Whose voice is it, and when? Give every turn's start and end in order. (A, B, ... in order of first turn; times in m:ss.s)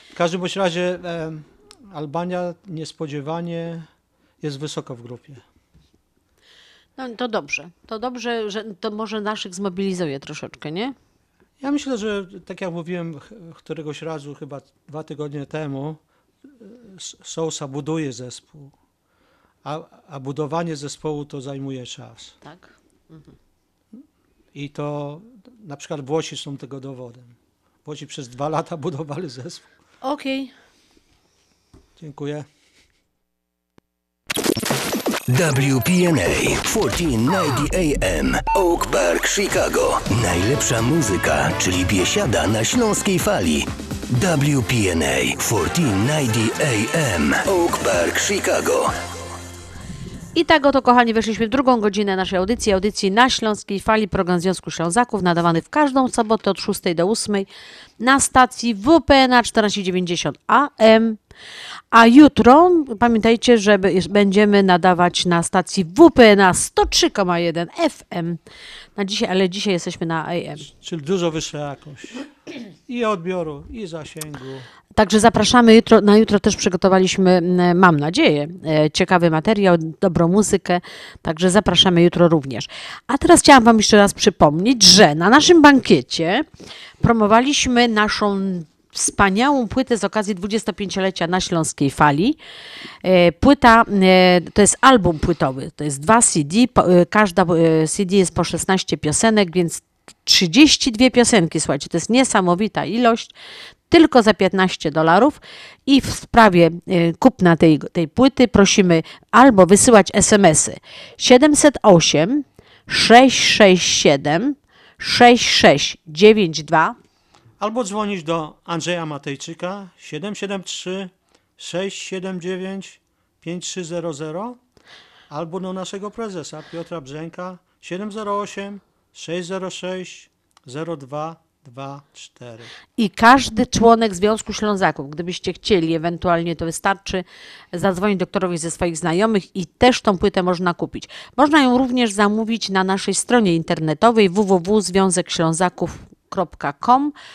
0:00.1-0:03.9 A
0:04.4-0:05.4 A
0:07.0-0:11.0 B
0:11.6-0:16.0 A
0:16.6-0:18.7 A
0:19.6-0:22.4 A
0:22.4-0:23.3 B
0:24.5-0:29.6 A
0:30.0-0:30.5 B
0:32.0-0:32.5 A
0:35.3-0:48.8 C
0:50.4-0:57.5 B
0:58.0-1:01.2 B
1:01.9-1:08.4 B
1:09.0-1:10.7 B
1:10.7-1:12.3 A
1:12.9-1:14.7 A
1:15.0-1:26.4 B
1:27.0-1:32.4 B
1:33.0-1:43.3 B
1:43.9-1:57.0 B
1:57.6-2:04.6 A
2:05.3-2:12.7 A
2:13.0-2:27.1 B